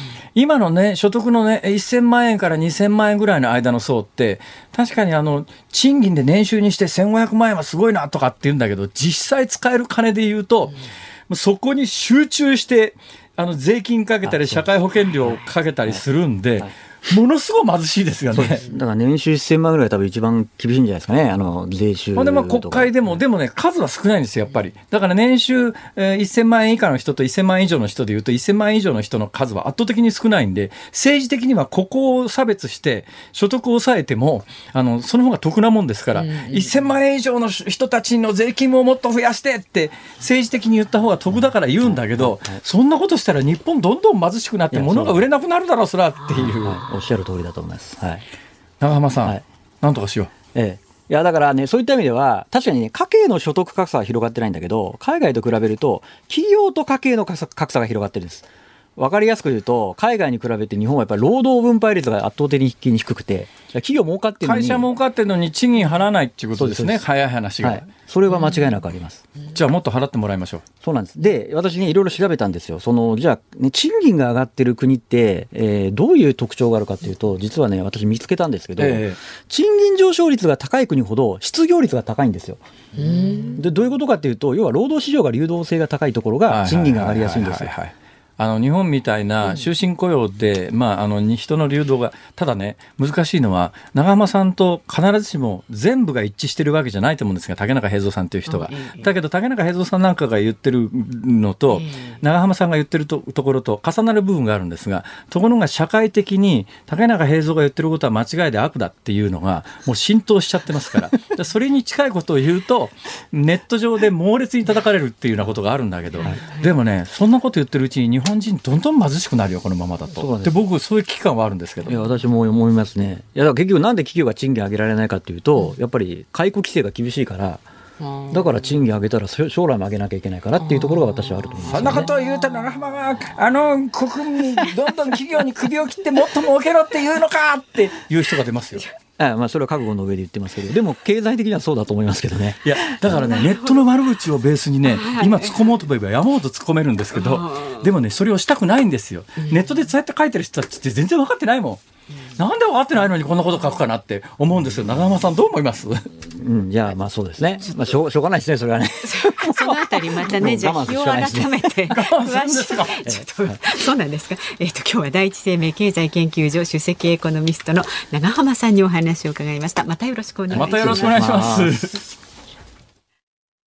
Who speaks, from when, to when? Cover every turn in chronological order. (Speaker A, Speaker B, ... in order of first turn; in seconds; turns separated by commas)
Speaker A: 0.3-18.6, Speaker B: 14.2-14.7, Speaker B: 18.3-23.0, Speaker A: 22.2-46.8, Speaker B: 41.8-42.6, Speaker B: 44.7-45.2, Speaker B: 46.3-48.2, Speaker A: 48.8-50.3, Speaker B: 50.5-64.9, Speaker A: 64.4-67.9, Speaker B: 66.6-67.0, Speaker B: 67.6-69.2, Speaker A: 69.5-70.7, Speaker B: 70.8-87.7, Speaker A: 78.8-79.2, Speaker C: 83.0-83.6, Speaker A: 86.5-121.9, Speaker C: 98.5-99.1, Speaker C: 101.7-102.2, Speaker C: 116.4-116.7, Speaker B: 120.1-120.6, Speaker B: 121.9-127.6, Speaker C: 128.0-128.5, Speaker B: 128.3-132.1, Speaker C: 130.8-131.1, Speaker A: 131.7-138.9, Speaker B: 139.2-142.9, Speaker A: 142.6-151.8, Speaker C: 143.3-143.7, Speaker C: 144.9-145.6, Speaker C: 147.2-147.9, Speaker C: 149.5-149.7, Speaker A: 152.3-156.1, Speaker B: 156.3-161.8, Speaker C: 159.0-171.5, Speaker A: 161.9-163.2, Speaker A: 170.5-172.0, Speaker B: 170.8-171.8